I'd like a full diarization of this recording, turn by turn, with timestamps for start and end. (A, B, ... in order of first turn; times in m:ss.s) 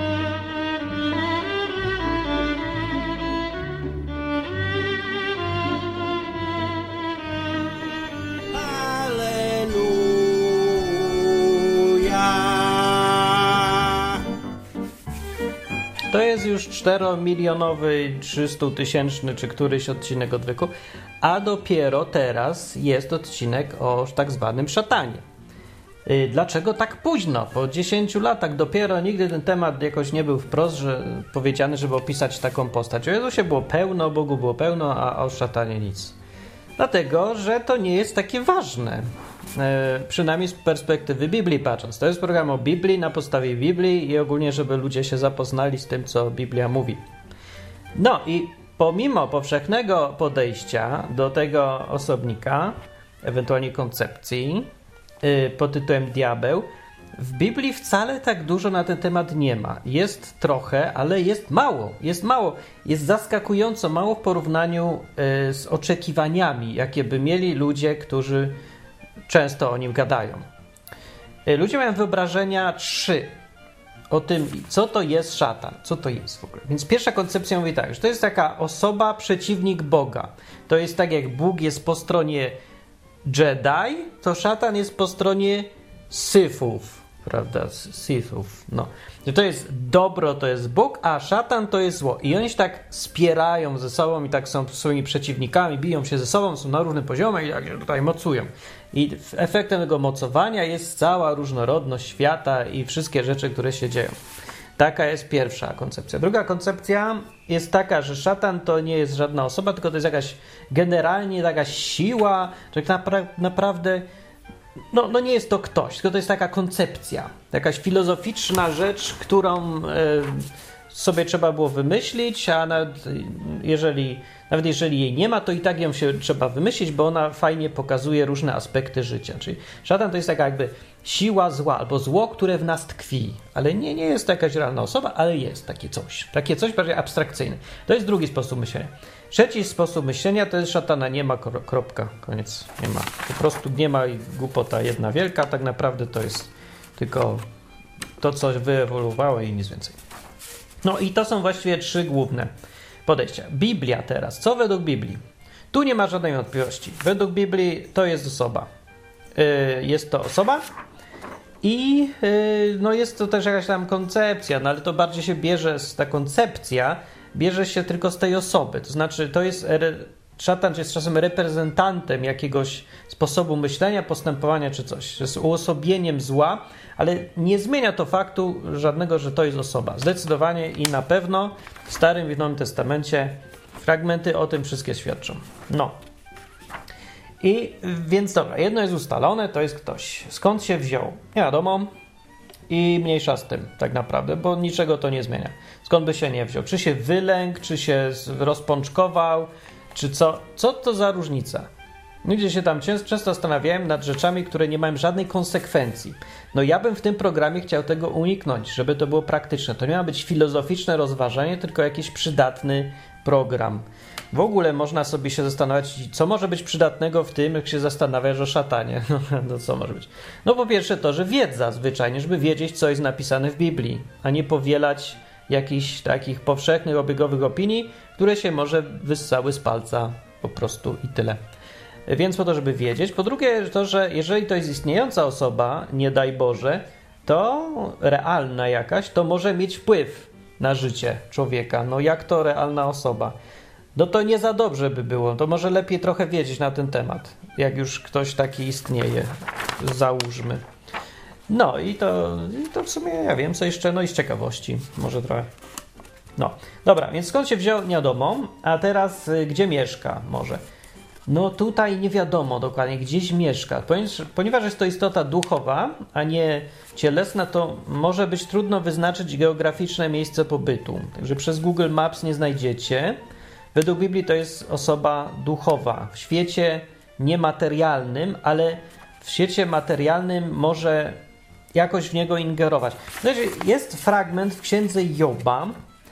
0:08.5-0:14.1 A
0:16.1-0:25.2 A
0:26.0-0:36.2 A
0:36.8-0:39.0 A
0:39.6-0:47.0 A
0:48.0-0:54.7 A
0:55.2-1:08.6 A
1:09.3-1:10.4 A
1:11.4-1:13.3 A
1:14.1-1:22.6 A
1:23.2-1:44.1 A
1:44.8-1:54.0 A
1:54.9-2:27.4 A
2:28.2-2:30.0 A
2:30.8-2:32.5 A
2:33.0-2:35.2 A
2:35.7-2:38.7 A
2:39.3-2:40.6 A
2:41.6-3:05.9 A
3:07.4-3:11.9 A
3:12.7-3:21.7 A
3:22.2-3:51.4 A
3:52.1-4:03.3 A
4:03.9-4:10.6 A
4:11.5-4:15.5 A
4:16.4-4:20.6 A
4:21.3-4:33.2 A
4:33.7-4:41.2 A
4:41.7-4:45.7 A